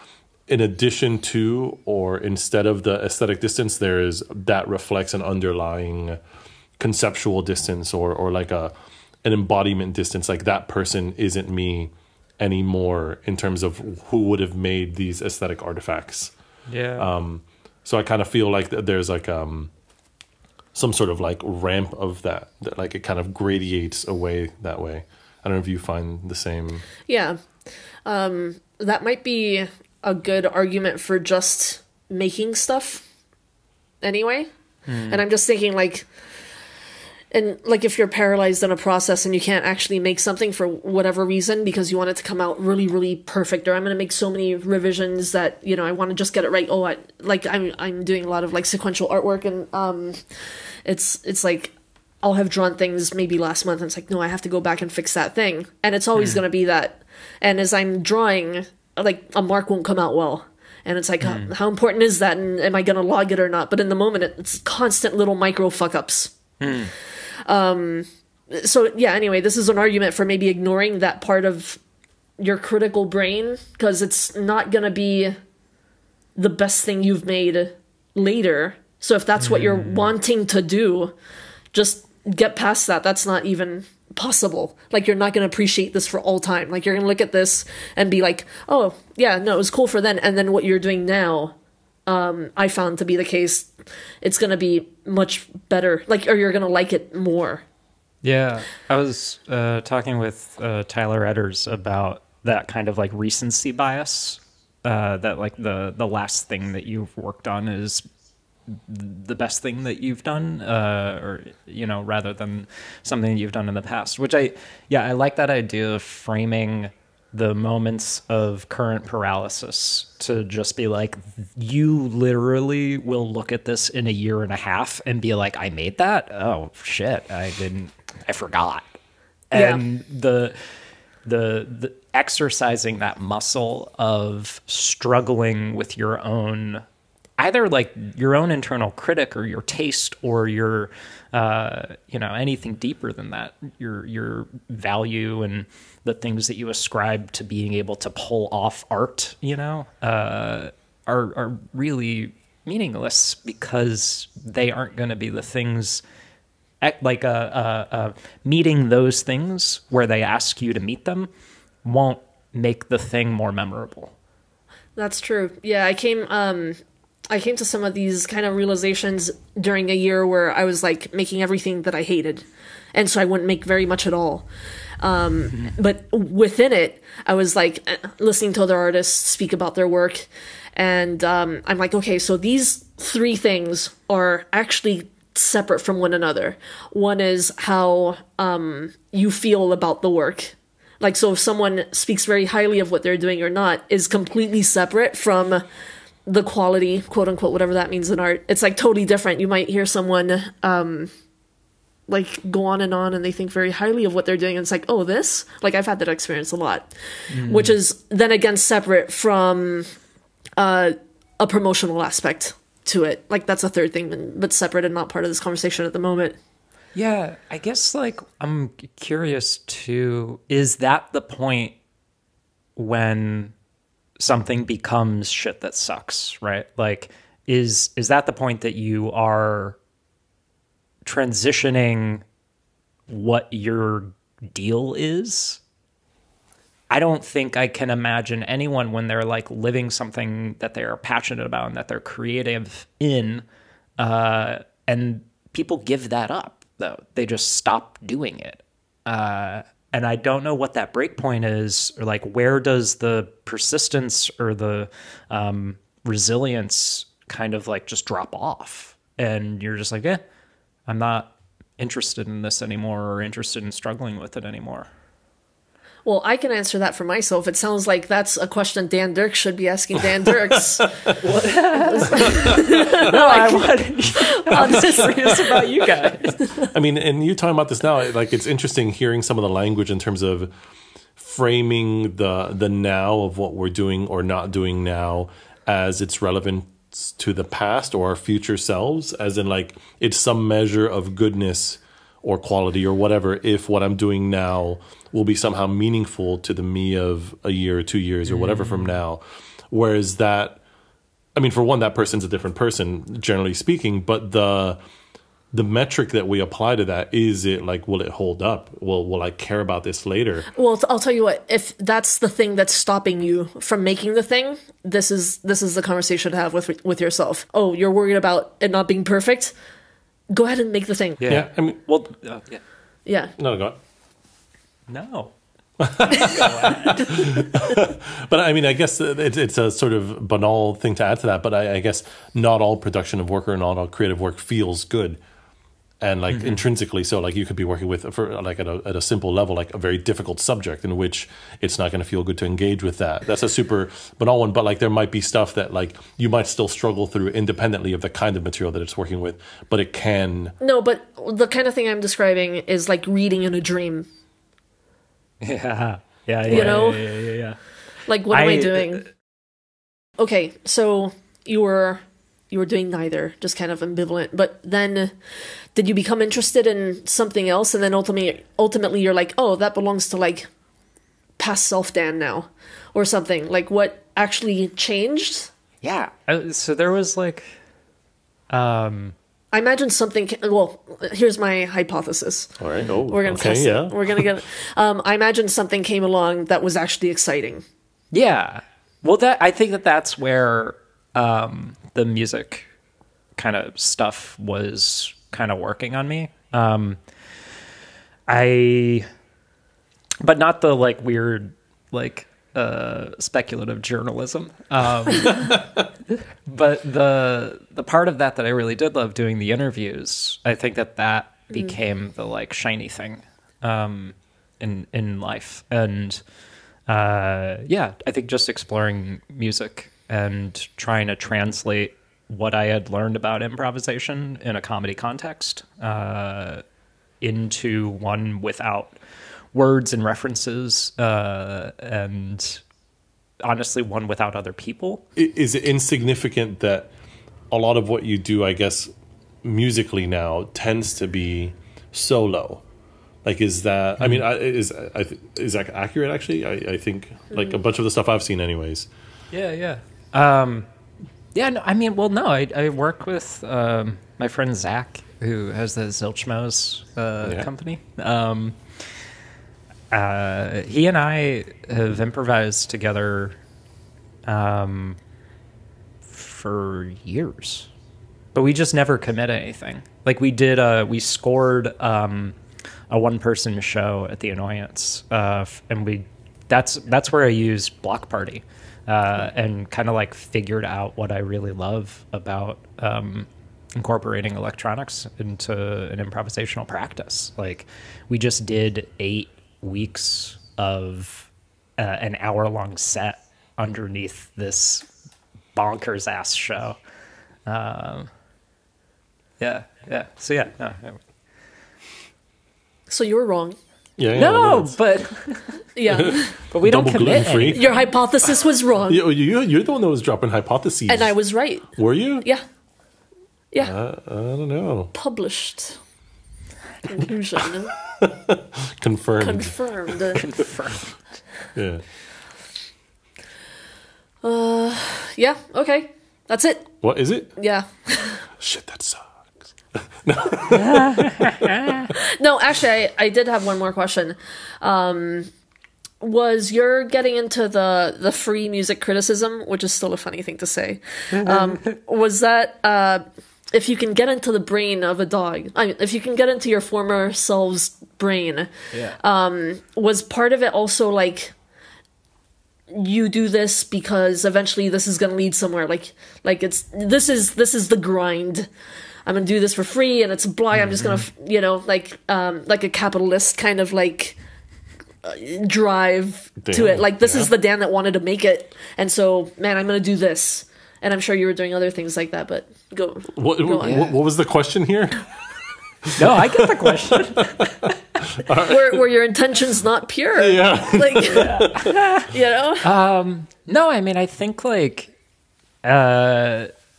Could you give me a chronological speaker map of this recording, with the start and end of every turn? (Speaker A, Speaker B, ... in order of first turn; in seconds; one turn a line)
Speaker A: 0.5-6.2
Speaker A: 6.8-8.7
Speaker A: 9.2-16.3
Speaker B: 16.7-17.1
Speaker A: 17.0-19.7
Speaker A: 20.7-26.9
Speaker C: 27.1-27.4
Speaker C: 28.0-33.0
Speaker C: 34.0-34.5
Speaker B: 34.9-35.2
Speaker C: 35.1-36.1
Speaker C: 37.3-50.2
Speaker C: 50.8-66.3
Speaker B: 56.1-56.4
Speaker B: 61.2-61.5
Speaker B: 66.6-66.9
Speaker C: 67.4-71.8
Speaker C: 72.4-75.4
Speaker C: 76.3-81.1
Speaker B: 79.4-80.1
Speaker C: 81.7-91.5
Speaker C: 92.1-97.6
Speaker B: 98.2-108.0
Speaker B: 108.7-128.9
Speaker B: 129.5-130.6
Speaker C: 129.5-129.8
Speaker B: 131.2-136.8
Speaker B: 137.4-156.0
Speaker B: 156.8-161.3
Speaker B: 161.8-164.1
Speaker C: 164.9-174.5
Speaker C: 175.0-195.6
Speaker C: 196.2-201.1
Speaker C: 202.1-206.9
Speaker B: 207.3-207.7
Speaker C: 207.4-209.9
Speaker C: 210.6-216.4
Speaker B: 216.9-221.8
Speaker B: 222.8-223.5
Speaker B: 224.2-229.8
Speaker B: 231.0-232.2
Speaker B: 233.1-235.6
Speaker B: 236.9-243.4
Speaker B: 244.0-260.2
Speaker B: 260.9-264.9
Speaker C: 266.0-270.9
Speaker A: 270.1-271.2
Speaker B: 271.2-276.4
Speaker C: 271.7-275.7
Speaker A: 272.2-272.6
Speaker A: 274.6-274.9
Speaker A: 276.6-280.5
Speaker A: 281.2-300.6
Speaker B: 298.2-299.0
Speaker A: 301.4-304.8
Speaker A: 305.5-310.5
Speaker C: 310.5-319.5
Speaker C: 320.3-321.2
Speaker B: 321.2-322.6
Speaker A: 321.3-321.8
Speaker C: 323.1-323.3
Speaker A: 323.4-323.8
Speaker B: 324.9-325.3
Speaker A: 325.8-335.2
Speaker B: 326.1-327.2
Speaker A: 336.0-350.5
Speaker B: 336.3-336.6
Speaker C: 350.6-354.1
Speaker B: 355.4-357.6
Speaker C: 356.5-357.1
Speaker C: 358.1-359.0
Speaker B: 358.3-359.1
Speaker C: 360.2-365.1
Speaker C: 365.7-370.5
Speaker C: 371.4-375.5
Speaker B: 375.8-377.5
Speaker B: 378.5-379.1
Speaker C: 379.5-387.6
Speaker A: 382.6-384.3
Speaker B: 388.1-392.7
Speaker B: 393.4-397.0
Speaker B: 398.3-399.1
Speaker B: 400.2-416.2
Speaker B: 416.9-426.6
Speaker B: 427.2-429.0
Speaker B: 429.5-432.6
Speaker B: 433.4-435.0
Speaker A: 435.1-436.9
Speaker A: 437.5-438.9
Speaker A: 439.4-442.6
Speaker A: 443.2-448.9
Speaker B: 449.3-450.7
Speaker B: 451.3-458.6
Speaker A: 457.2-457.5
Speaker B: 459.9-463.4
Speaker B: 464.3-465.0
Speaker B: 466.1-467.7
Speaker B: 468.3-472.4
Speaker B: 472.9-494.9
Speaker B: 495.5-496.8
Speaker B: 497.5-498.1
Speaker B: 499.4-501.0
Speaker C: 502.9-503.6
Speaker A: 504.0-504.8
Speaker B: 504.1-507.8
Speaker C: 505.8-506.4
Speaker A: 505.9-507.7
Speaker C: 507.5-509.0
Speaker A: 508.9-511.1
Speaker C: 510.9-512.4
Speaker A: 511.8-512.2
Speaker A: 513.6-514.9
Speaker C: 514.9-515.8
Speaker C: 516.9-517.7
Speaker A: 517.8-520.0
Speaker C: 519.2-520.2
Speaker B: 520.1-520.9
Speaker A: 521.5-521.8
Speaker C: 524.2-526.8
Speaker A: 526.8-527.3
Speaker C: 527.4-528.2
Speaker A: 528.4-529.1
Speaker A: 529.7-531.8
Speaker B: 530.5-531.9
Speaker C: 532.0-535.3
Speaker C: 536.0-551.3
Speaker B: 541.1-541.8
Speaker B: 548.7-549.0
Speaker C: 552.7-558.5
Speaker C: 559.0-564.2
Speaker B: 560.5-561.1
Speaker C: 565.0-573.9
Speaker A: 566.4-567.3
Speaker A: 573.1-575.0
Speaker B: 573.6-574.0
Speaker A: 575.8-578.8
Speaker B: 576.0-577.8
Speaker C: 578.4-581.3
Speaker A: 580.2-582.0
Speaker B: 581.1-582.0
Speaker C: 582.0-582.7
Speaker B: 582.6-584.9
Speaker B: 585.6-586.5